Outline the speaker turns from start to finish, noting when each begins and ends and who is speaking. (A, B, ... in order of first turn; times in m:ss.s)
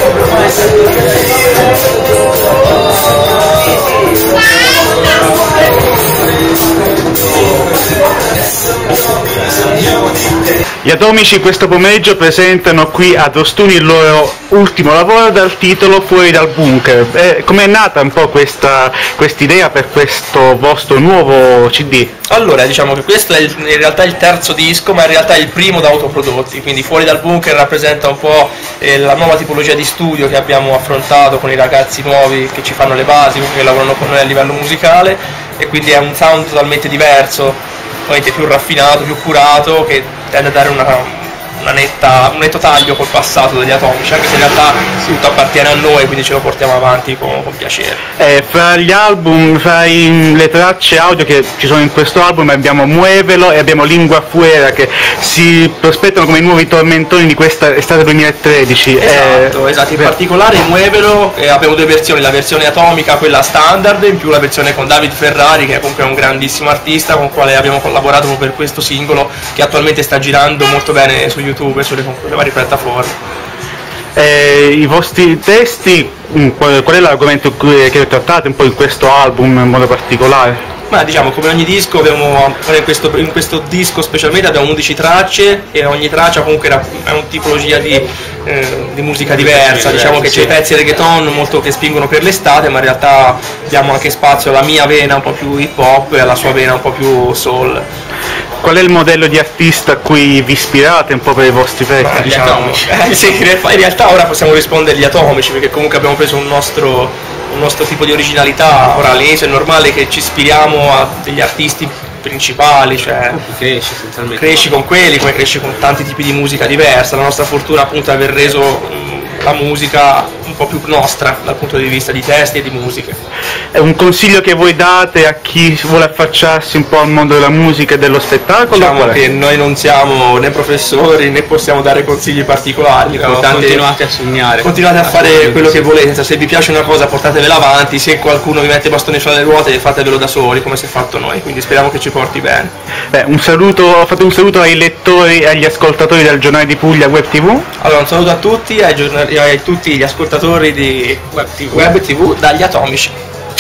0:10.8-0:22.1 A
0:22.3-0:48.0 B
0:48.2-1:00.1 A
0:59.0-1:13.2 B
1:14.2-1:20.6 A
1:20.9-1:37.8 B
1:29.3-1:30.6 C
1:38.6-1:42.4 A
1:42.0-1:53.4 B
1:42.3-1:43.2 C
1:53.3-1:54.8 C
1:54.4-2:03.2 B
2:03.7-2:09.2 A
2:08.7-2:13.8 B
2:13.0-2:15.9 C
2:14.6-2:22.7 B
2:23.1-2:27.7 A
2:27.8-2:33.2 B
2:31.3-2:31.9 C